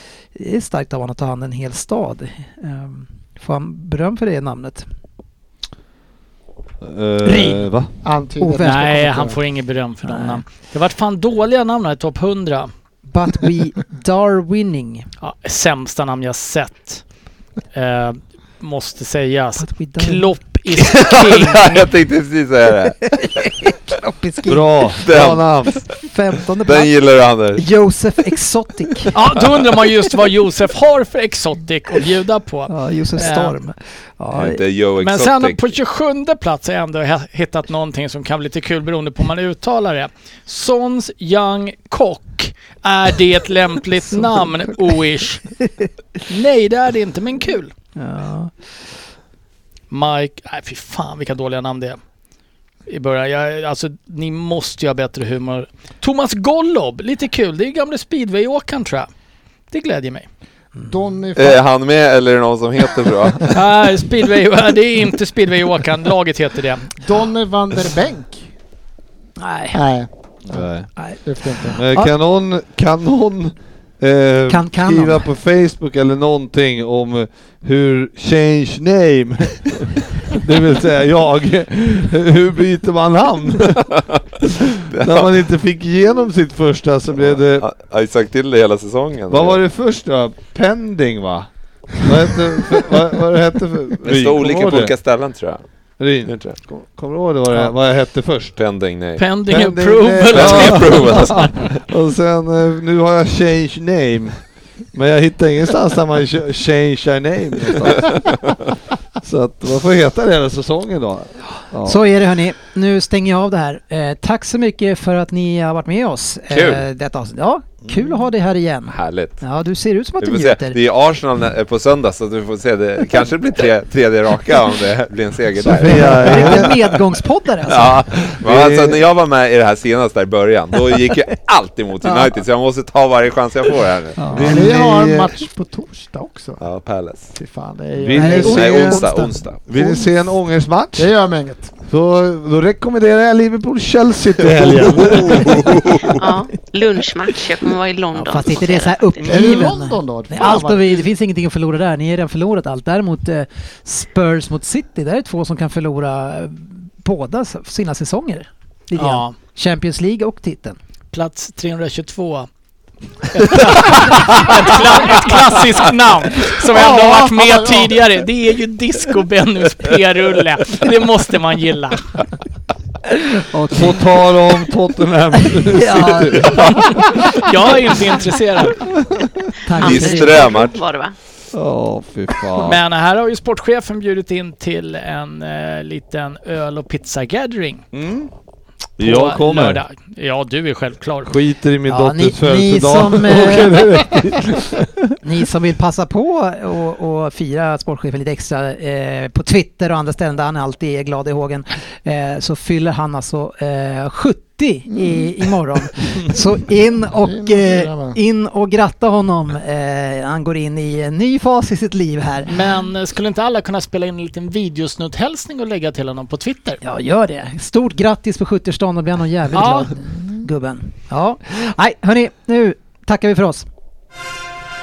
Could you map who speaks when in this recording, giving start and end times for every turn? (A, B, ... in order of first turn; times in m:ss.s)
0:00.3-0:04.8 A
0:06.8-0:07.9 B
0:07.2-0:07.7 A
0:08.0-0:09.4 C
0:08.4-0:09.0 A
0:08.6-0:12.7 D
0:10.0-0:10.4 A
0:13.1-0:15.1 A
0:15.2-0:17.0 D
0:17.7-0:21.9 D
0:19.6-0:20.4 A
0:20.7-0:23.2 E
0:23.0-0:25.0 A
0:24.4-0:25.8 B
0:25.0-0:25.8 E
0:25.9-0:26.9 A
0:26.6-0:27.6 E
0:27.5-0:29.1 A
0:29.1-0:33.6 D
0:32.7-0:34.6 A
0:34.3-0:35.7 E
0:35.0-0:45.6 D
0:46.3-0:47.7 D
0:48.0-0:48.5 A
0:49.9-0:52.0 D
0:52.9-0:59.1 D
0:59.7-1:00.3 D
1:00.8-1:01.6 C
1:01.4-1:03.6 E
1:03.5-1:07.0 D
1:07.0-1:08.5 C
1:09.4-1:09.8 A
1:09.7-1:10.1 C
1:10.5-1:10.9 B
1:10.5-1:12.1 A
1:11.2-1:11.8 C
1:11.7-1:27.6 B
1:14.5-1:15.3 A
1:24.9-1:25.3 E
1:27.2-1:29.6 E
1:29.3-1:34.9 B
1:34.0-1:35.6 E
1:36.0-1:38.5 B
1:36.2-1:36.6 E
1:38.5-1:39.3 E
1:39.2-1:41.6 D
1:39.5-1:48.2 B
1:40.3-1:41.7 E
1:49.2-1:52.0 B
1:51.8-2:00.8 A
1:56.5-1:56.9 E
1:58.9-1:59.4 E
2:00.2-2:06.7 E
2:05.6-2:06.9 B
2:05.9-2:08.0 A
2:07.6-2:14.3 E
2:08.3-2:09.0 B
2:12.0-2:12.3 A
2:14.2-2:14.5 A
2:14.3-2:15.3 B
2:14.4-2:16.6 C
2:16.6-2:17.3 E
2:17.3-2:18.9 C
2:18.0-2:19.1 B
2:18.1-2:19.6 E
2:18.2-2:19.4 A
2:19.6-2:21.1 B
2:19.8-2:20.1 C
2:21.0-2:21.8 C
2:21.9-2:25.8 B
2:24.5-2:26.3 E
2:26.1-2:29.6 F
2:28.1-2:40.8 A
2:29.2-2:31.0 C
2:39.0-2:39.4 D
2:41.1-2:42.5 D
2:43.3-2:52.1 D
2:46.5-2:48.2 C
2:53.5-2:53.9 A
2:53.7-2:57.4 B
2:55.5-2:56.8 A
2:57.1-2:58.9 D
2:58.8-2:59.5 B
2:59.6-3:00.6 A
2:59.8-3:00.8 E
2:59.8-3:01.2 F
3:01.5-3:02.8 B
3:02.6-3:07.9 D
3:07.9-3:08.3 B
3:09.0-3:09.8 B
3:09.0-3:11.3 D
3:11.3-3:15.1 B
3:11.9-3:14.2 A
3:15.2-3:32.6 A
3:24.9-3:25.5 C
3:27.0-3:28.2 C
3:32.5-3:36.8 D
3:36.8-3:43.7 A
3:39.5-3:39.9 D
3:40.0-3:40.4 C